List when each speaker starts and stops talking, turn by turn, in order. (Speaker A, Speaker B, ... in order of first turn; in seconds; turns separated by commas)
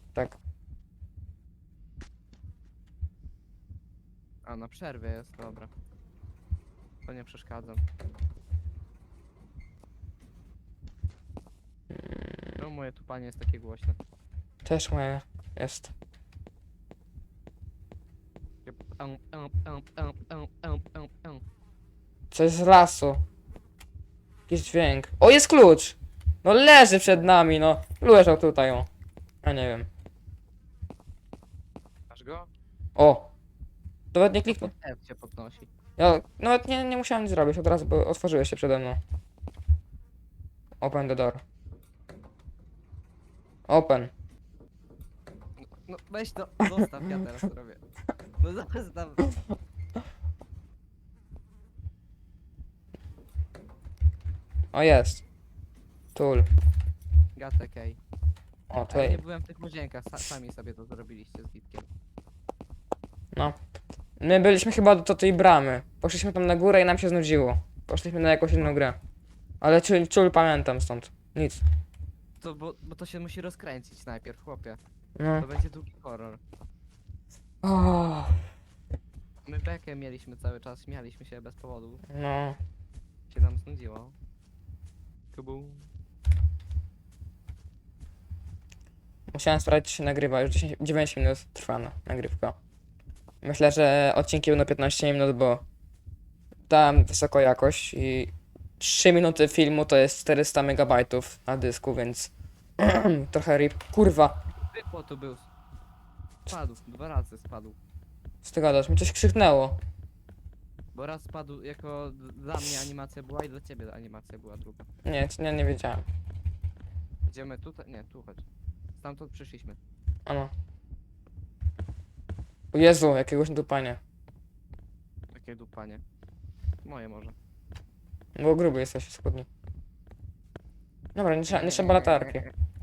Speaker A: 4.5-5.7, Speaker A: 7.0-7.8, Speaker B: 11.9-12.5, Speaker A: 12.6-14.0, Speaker B: 14.6-15.9, Speaker A: 18.6-21.4, Speaker B: 22.3-23.2, Speaker B: 24.5-28.9, Speaker B: 29.4-29.9, Speaker A: 32.1-32.5, Speaker B: 33.0-33.3, Speaker B: 34.1-34.7, Speaker A: 34.4-35.7, Speaker B: 36.0-39.0, Speaker B: 40.8-41.4, Speaker B: 43.7-44.1, Speaker A: 45.6-47.8, Speaker A: 48.4-49.4, Speaker B: 54.7-55.2, Speaker B: 56.1-56.5, Speaker A: 57.4-58.0, Speaker B: 58.7-59.2, Speaker A: 58.9-61.9, Speaker B: 64.2-69.0, Speaker B: 69.6-71.6, Speaker A: 72.4-74.8, Speaker B: 75.2-75.4, Speaker A: 75.4-76.4, Speaker B: 77.6-78.3, Speaker A: 79.5-82.0, Speaker B: 82.1-82.6, Speaker A: 83.3-84.1, Speaker A: 85.3-85.9, Speaker B: 89.3-92.5, Speaker B: 93.4-95.6, Speaker B: 96.7-104.4, Speaker A: 104.6-105.5, Speaker A: 106.5-107.8, Speaker B: 108.4-109.8, Speaker A: 110.9-114.8, Speaker B: 115.0-116.0, Speaker A: 117.3-118.4, Speaker A: 119.0-119.8, Speaker B: 120.3-120.5, Speaker B: 122.7-124.0, Speaker A: 125.3-126.0, Speaker A: 126.8-127.3, Speaker B: 128.3-129.5, Speaker B: 131.1-132.4, Speaker A: 131.5-132.5